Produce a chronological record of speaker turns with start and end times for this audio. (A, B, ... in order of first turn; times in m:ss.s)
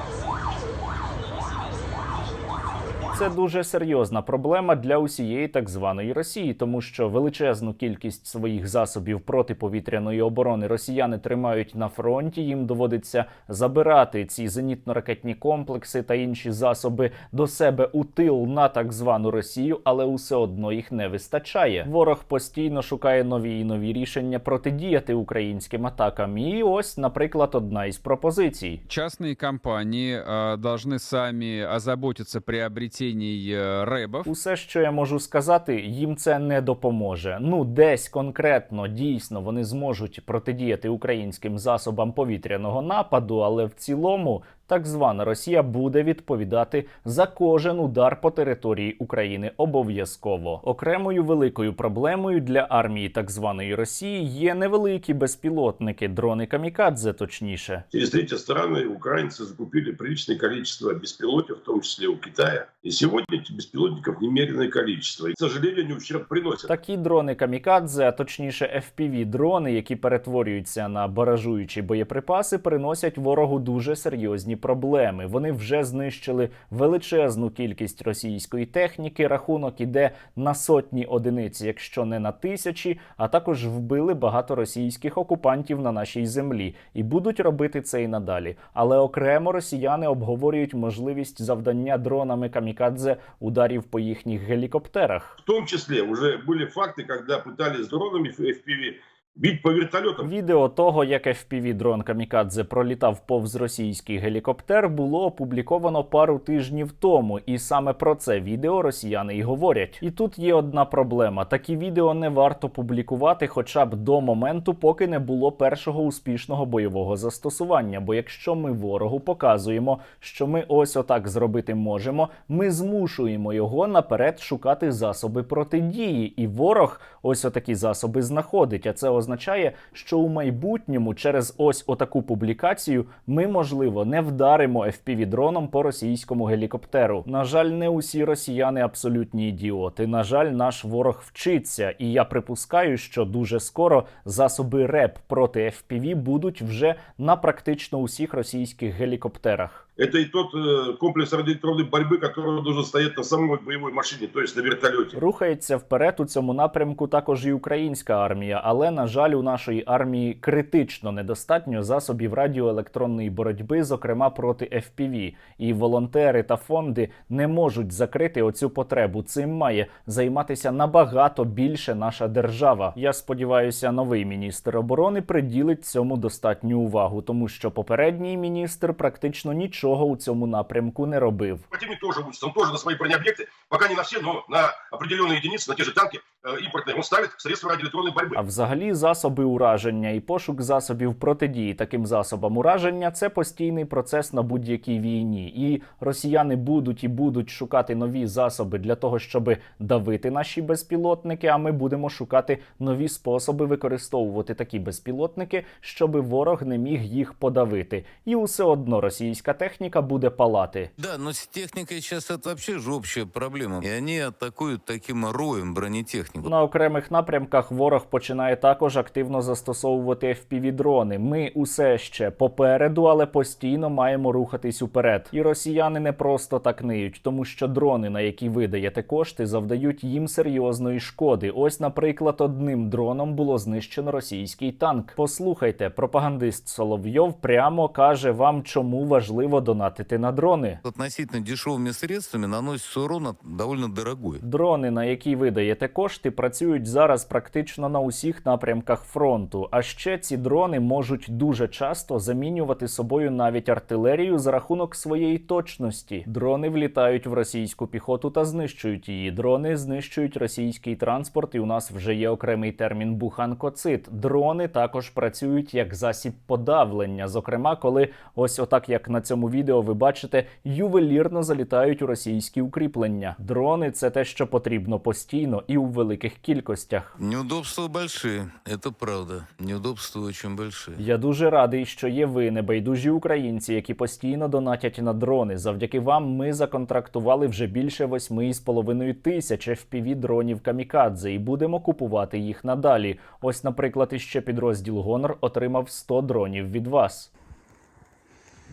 0:03.1-0:28.8 A
0:28.9-0:34.3 B
0:34.2-0:57.8 A
0:57.9-1:06.7 C
1:06.7-1:35.4 A
1:35.4-1:40.3 C
1:40.2-2:29.8 A
2:30.0-2:35.2 C
2:35.1-3:01.6 A
3:01.7-3:08.4 C
3:08.3-3:30.9 A
3:31.0-3:36.4 D
3:36.4-4:00.8 A
4:00.8-4:04.4 D
4:04.4-4:37.2 A
4:37.2-4:41.0 D
4:41.0-4:57.3 A